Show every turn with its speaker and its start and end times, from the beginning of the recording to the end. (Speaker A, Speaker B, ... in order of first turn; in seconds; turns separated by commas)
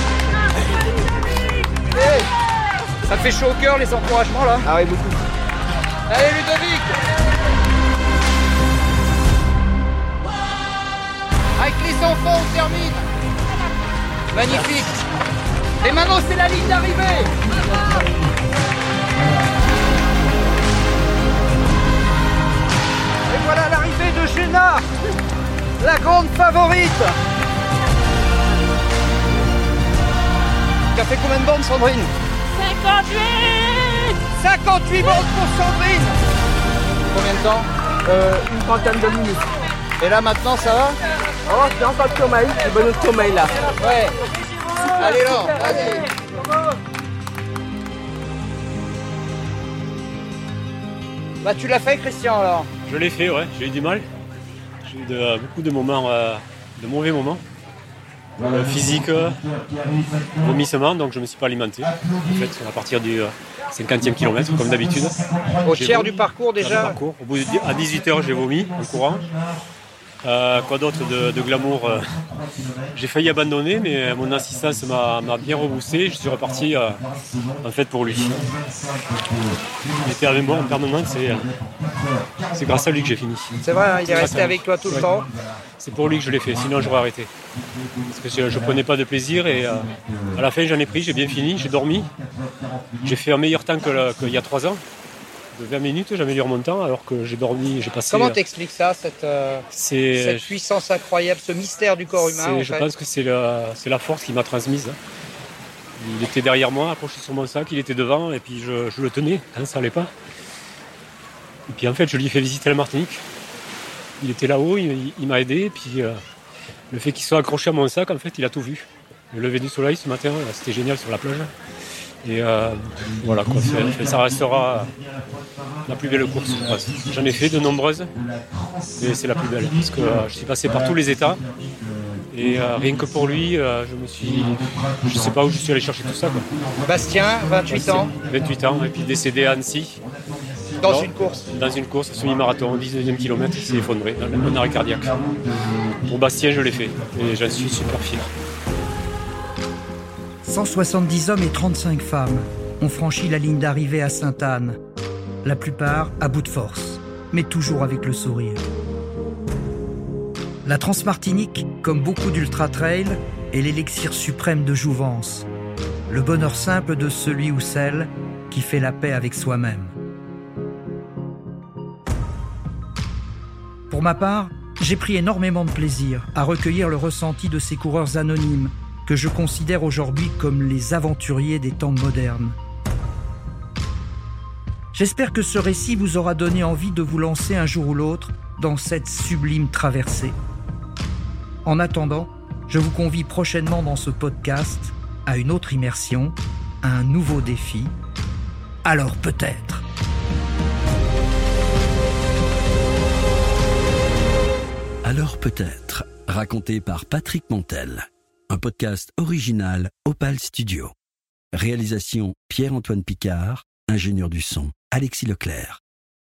Speaker A: 1.9-2.3, Speaker A: 3.1-4.7, Speaker B: 4.6-5.2, Speaker A: 6.1-7.0, Speaker A: 11.6-13.1, Speaker A: 14.3-15.0, Speaker A: 15.8-17.4, Speaker A: 23.3-24.9, Speaker A: 25.8-27.1, Speaker A: 30.9-32.1, Speaker B: 32.6-34.1, Speaker A: 34.3-36.2, Speaker A: 37.1-37.7, Speaker B: 38.0-39.5, Speaker A: 40.0-41.0, Speaker B: 41.5-43.7, Speaker A: 43.8-44.2, Speaker B: 44.8-46.2, Speaker A: 45.0-46.0, Speaker A: 51.4-52.7, Speaker C: 52.9-54.1, Speaker C: 54.8-57.4, Speaker C: 58.4-59.4, Speaker C: 60.4-69.3, Speaker A: 65.6-67.0, Speaker C: 70.2-72.0, Speaker C: 72.9-77.0, Speaker C: 77.6-78.5, Speaker C: 80.0-81.5, Speaker C: 82.5-83.5, Speaker A: 83.6-85.3, Speaker C: 84.1-85.1, Speaker C: 85.8-87.3, Speaker C: 88.1-92.1, Speaker C: 93.0-94.8, Speaker C: 95.5-98.4, Speaker A: 98.1-102.9, Speaker C: 99.7-100.5, Speaker C: 102.1-105.0, Speaker C: 106.0-110.1, Speaker C: 111.7-113.2, Speaker C: 114.2-116.2, Speaker C: 116.9-121.5, Speaker C: 122.2-124.9, Speaker C: 125.9-128.1, Speaker C: 128.9-131.4, Speaker C: 132.3-136.4, Speaker A: 136.8-138.1, Speaker C: 137.7-140.0, Speaker A: 140.8-141.4, Speaker C: 140.8-145.2, Speaker C: 146.1-148.3, Speaker D: 150.4-154.8, Speaker D: 155.4-158.6, Speaker D: 160.6-165.5, Speaker D: 166.1-169.9, Speaker D: 173.9-182.6, Speaker D: 184.9-190.4, Speaker D: 191.6-197.9, Speaker D: 198.8-199.8, Speaker E: 205.0-210.9, Speaker E: 211.5-215.8